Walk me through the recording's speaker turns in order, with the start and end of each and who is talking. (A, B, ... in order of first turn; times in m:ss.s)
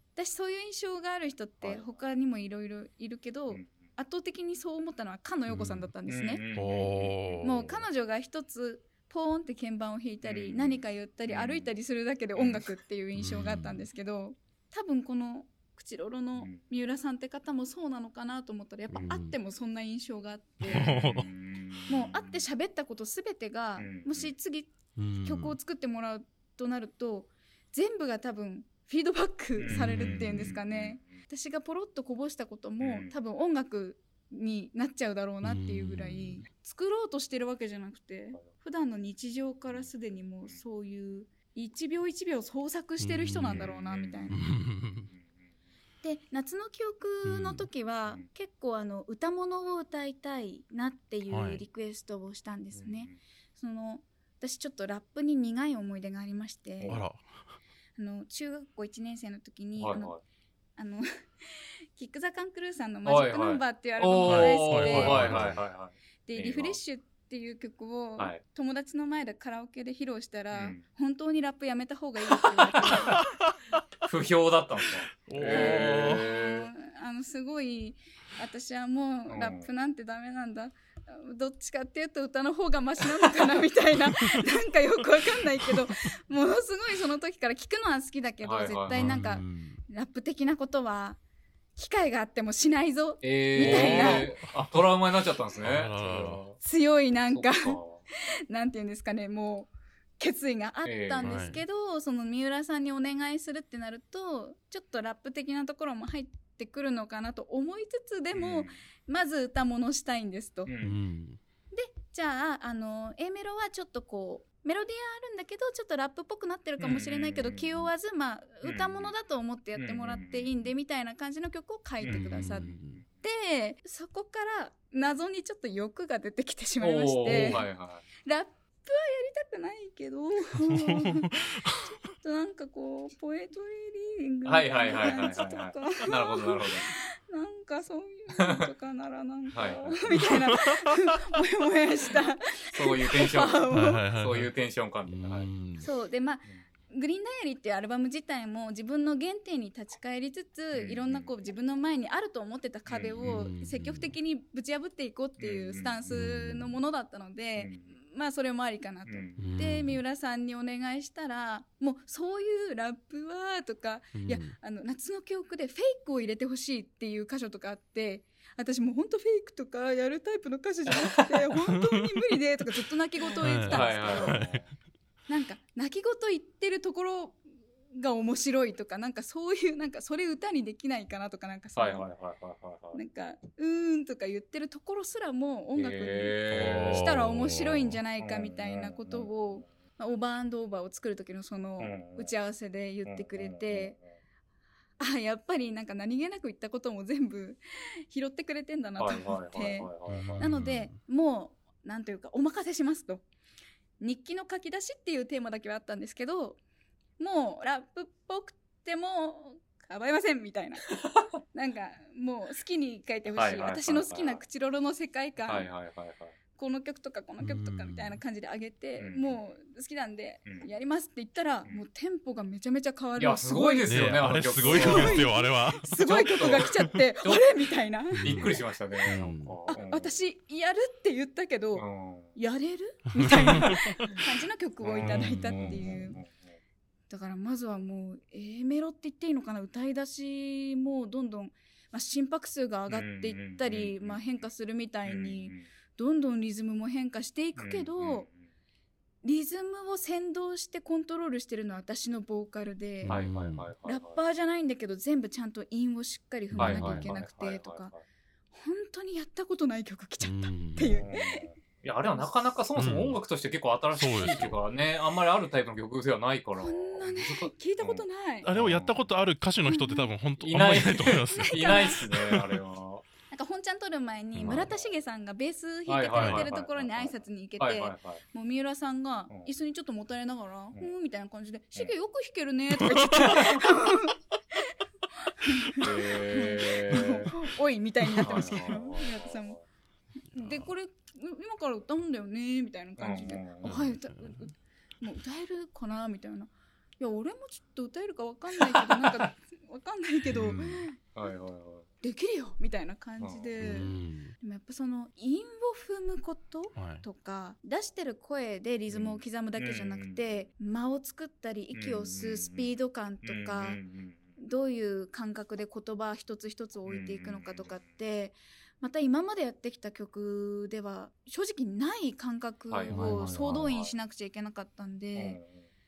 0:00.2-0:06.4 A
0:01.6-0:01.9 B
0:05.5-0:05.9 C
0:06.1-0:07.8 B
0:06.5-0:07.7 C
0:07.4-0:20.9 A
0:10.2-0:11.7 B
0:12.4-0:12.6 B
0:13.1-0:13.9 C
0:16.3-0:16.6 B
0:18.9-0:19.4 C
0:20.6-0:21.3 C
0:20.7-0:22.4 B
0:21.9-0:44.5 A
0:23.8-0:24.3 B
0:24.9-0:25.6 C
0:29.6-0:31.2 B
0:29.7-0:30.6 C
0:32.8-0:33.2 B
0:35.4-0:36.4 C
0:43.0-0:43.7 C
0:43.5-0:44.4 B
0:44.3-0:45.1 C
0:45.1-0:45.4 B
0:46.0-0:57.0 A
0:47.2-0:47.7 C
0:51.3-0:51.6 C
0:52.7-0:53.2 B
0:56.9-0:57.4 C
0:58.0-1:00.1 A
0:59.8-1:00.2 B
1:00.8-1:05.6 A
1:03.0-1:06.8 B
1:04.3-1:05.6 C
1:06.2-1:13.2 A
1:10.5-1:10.8 B
1:12.8-1:13.2 B
1:12.9-1:13.8 C
1:14.0-1:16.7 B
1:15.0-1:16.3 C
1:15.4-1:31.2 A
1:19.3-1:19.7 B
1:24.1-1:24.4 C
1:25.6-1:25.9 C
1:28.4-1:29.2 B
1:28.9-1:29.8 C
1:31.8-1:34.3 A
1:33.2-1:36.6 B
1:33.6-1:35.0 C
1:35.6-1:36.4 C
1:36.6-1:37.8 A
1:37.3-1:38.0 B
1:38.5-1:50.7 A
1:40.8-1:41.4 B
1:41.2-1:41.6 C
1:48.3-1:48.8 B
1:50.6-1:51.0 B
1:50.8-1:51.4 C
1:51.7-2:07.7 A
1:56.8-1:57.9 B
1:58.6-1:59.1 B
1:59.7-2:00.7 B
2:02.0-2:03.0 B
2:02.0-2:03.0 C
2:06.8-2:08.0 B
2:07.2-2:07.6 C
2:08.2-2:24.0 A
2:10.6-2:11.9 C
2:14.4-2:16.9 B
2:18.4-2:18.7 B
2:19.5-2:20.3 B
2:20.1-2:21.1 C
2:22.7-2:25.5 B
2:23.7-2:24.5 C
2:25.0-2:25.9 C
2:25.8-2:54.4 A
2:30.7-2:31.3 B
2:32.9-2:33.4 B
2:33.2-2:34.2 C
2:35.4-2:36.0 B
2:36.1-2:36.8 C
2:37.6-2:37.9 B
2:39.0-2:39.4 B
2:39.4-2:40.0 C
2:44.1-2:44.5 C
2:50.9-2:51.4 B
2:51.8-2:52.2 C
2:53.3-2:54.7 B
2:53.4-2:54.6 C
2:55.3-2:57.4 A
2:57.9-3:02.1 A
3:01.8-3:03.0 B
3:02.9-3:14.0 A
3:05.8-3:07.2 B
3:06.5-3:08.0 C
3:08.2-3:09.5 B
3:11.8-3:12.3 B
3:13.0-3:14.0 B
3:15.0-3:23.2 A
3:19.0-3:20.6 B
3:20.1-3:21.0 C
3:24.0-3:26.6 A
3:27.2-3:30.9 A
3:30.9-3:31.3 B
3:31.5-3:35.7 A
3:33.3-3:34.4 B
3:35.5-3:36.3 B
3:36.6-3:48.6 A
3:37.4-3:38.2 C
3:39.0-3:39.4 B
3:43.2-3:45.3 B
3:43.9-3:45.9 C
3:45.9-3:50.1 B
3:48.1-3:49.6 C
3:49.7-3:51.8 A
3:51.7-3:52.4 B
3:52.4-3:56.2 A
3:53.2-3:54.1 C
3:53.3-3:54.2 B
3:54.8-3:56.5 B
3:55.0-3:56.2 C
3:57.1-4:08.2 A
4:02.9-4:04.2 B
4:05.0-4:05.7 B
4:07.6-4:08.4 B
4:09.2-4:13.2 A
4:13.0-4:13.7 C
4:13.1-4:14.2 B
4:13.8-4:17.9 A
4:16.5-4:17.1 C
4:16.6-4:18.0 B
4:18.5-4:21.5 A
4:20.2-4:21.0 C
4:21.0-4:29.1 B
4:22.8-4:23.2 C
4:23.9-4:24.6 C
4:26.6-4:28.5 A
4:28.4-4:32.5 C
4:29.7-4:30.1 A
4:30.4-4:33.0 B
4:31.3-4:32.0 A
4:33.3-4:44.7 A
4:34.4-4:34.7 C
4:34.4-4:34.9 B
4:35.9-4:38.2 B
4:36.2-4:36.5 C
4:43.2-4:43.6 B
4:45.3-4:49.6 A
4:45.8-4:47.3 B
4:48.1-4:48.7 C
4:48.2-4:49.6 B
4:50.3-5:01.0 A
4:50.3-4:50.7 C
4:53.0-4:53.8 B
4:53.6-4:54.5 C
4:58.7-4:59.3 B
5:00.3-5:00.8 C
5:01.1-5:01.9 B
5:02.0-5:13.8 A
5:03.2-5:03.7 B
5:03.6-5:04.3 C
5:06.7-5:07.0 C
5:08.9-5:10.4 B
5:11.7-5:12.7 B
5:13.2-5:14.2 B
5:14.4-5:25.4 A
5:16.8-5:17.8 B
5:22.7-5:23.9 B
5:22.9-5:23.7 C
5:25.1-5:25.6 B